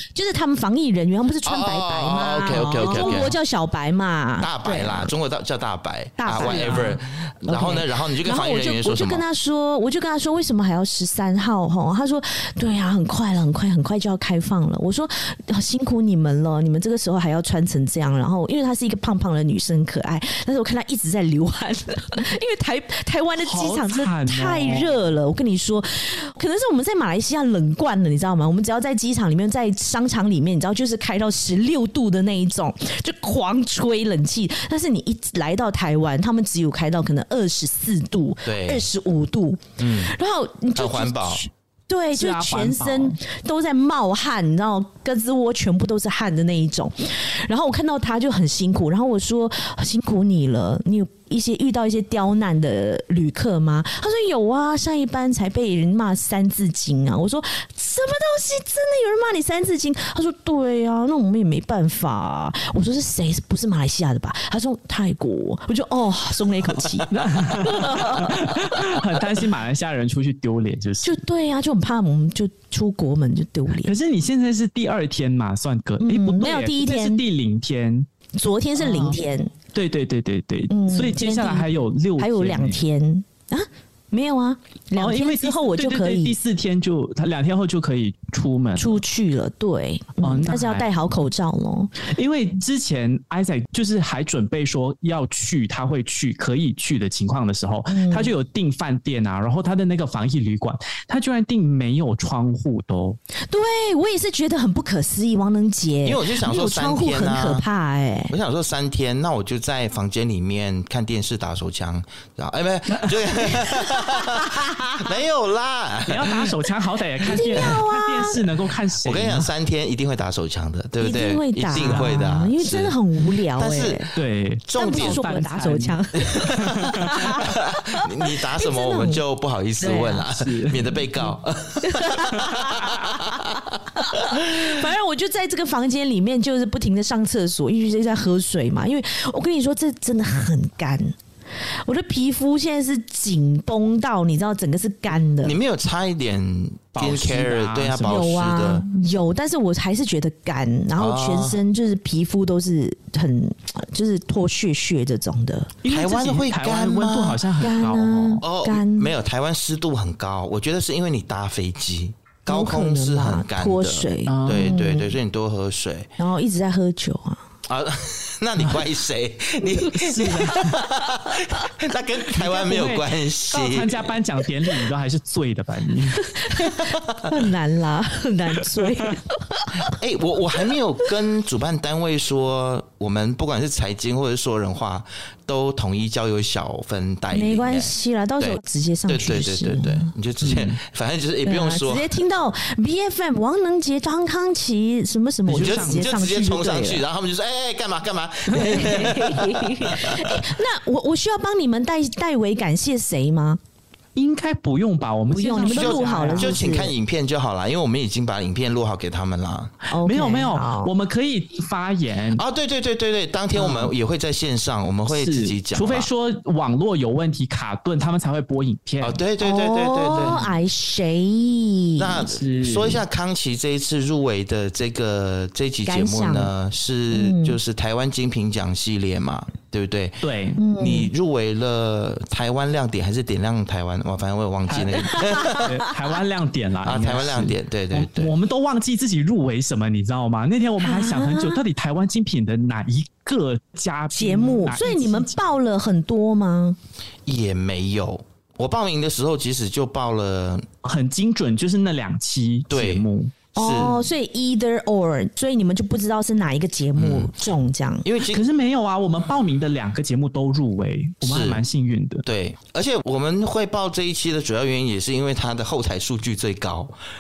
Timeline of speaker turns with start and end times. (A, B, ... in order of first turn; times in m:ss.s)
0:00.1-0:05.1 A
0:01.4-0:03.4 B
0:02.8-0:03.3 C
0:04.4-0:09.2 B
0:06.2-1:09.2 A
0:06.4-0:07.0 C
0:23.4-0:25.0 C
0:38.4-0:38.8 B
0:39.8-0:40.1 B
0:40.7-0:41.4 B
0:42.1-0:43.2 C
1:06.8-1:11.2 C
1:11.0-1:13.9 A
1:13.8-1:18.1 C
1:16.0-1:17.2 A
1:18.4-1:19.5 A
1:18.8-1:19.2 C
1:19.7-1:22.8 C
1:20.7-1:26.4 A
1:25.0-1:29.0 C
1:28.8-1:31.9 A
1:30.2-1:30.9 C
1:32.1-1:43.2 C
1:37.9-1:38.3 A
1:43.5-1:48.3 A
1:46.0-1:47.6 B
1:48.3-1:56.6 B
1:53.4-1:55.0 A
1:56.1-1:59.5 C
1:57.2-1:57.7 B
1:57.2-1:58.4 A
1:59.0-2:03.0 B
2:01.0-2:04.1 A
2:01.7-2:02.3 C
2:03.5-2:05.3 B
2:04.2-2:06.0 C
2:04.7-2:09.2 A
2:06.3-2:14.7 B
2:06.6-2:07.3 C
2:09.8-2:10.3 A
2:10.3-2:11.3 C
2:11.8-2:21.1 A
2:21.8-2:25.6 A
2:25.4-2:28.8 B
2:27.0-2:28.3 C
2:28.0-2:35.7 A
2:31.0-2:31.6 B
2:35.8-2:38.4 C
2:35.9-2:37.5 B
2:37.6-2:39.1 A
2:38.4-2:46.1 B
2:42.5-2:45.1 A
2:44.3-2:44.8 C
2:46.2-2:47.4 A
2:47.7-2:54.1 B
2:48.6-2:48.9 C
2:49.6-2:51.6 A
2:50.2-2:50.7 C
2:52.4-2:56.6 C
2:56.2-2:59.9 A
2:59.8-3:12.0 B
3:07.3-3:10.1 A
3:10.4-3:10.8 C
3:11.4-3:17.0 A
3:15.5-3:16.2 C
3:15.6-3:20.6 B
3:18.5-3:19.0 C
3:18.6-3:23.6 A
3:24.2-3:26.6 C
3:25.3-3:26.9 A
3:25.6-3:29.7 B
3:29.9-3:30.9 A
3:30.0-3:32.4 C
3:32.4-3:36.1 B
3:33.5-3:33.9 C
3:35.1-3:39.2 C
3:39.0-3:40.5 B
3:39.4-3:42.3 A
3:40.1-3:40.5 C
3:42.0-3:55.8 B
3:42.3-3:43.0 C
3:45.9-3:46.5 A
3:47.1-3:47.6 A
3:50.2-3:50.6 C
3:50.6-3:51.1 A
3:54.7-4:05.3 C
3:55.0-3:55.9 A
3:56.8-3:58.3 B
4:00.8-4:01.6 A
4:04.1-4:06.8 A
4:07.3-4:10.6 B
4:10.8-4:13.4 C
4:12.7-4:13.0 B
4:13.6-4:14.0 B
4:13.6-4:18.0 A
4:17.0-4:17.3 B
4:18.0-4:18.4 B
4:18.3-4:22.2 C
4:21.2-4:21.6 B
4:22.2-4:27.0 B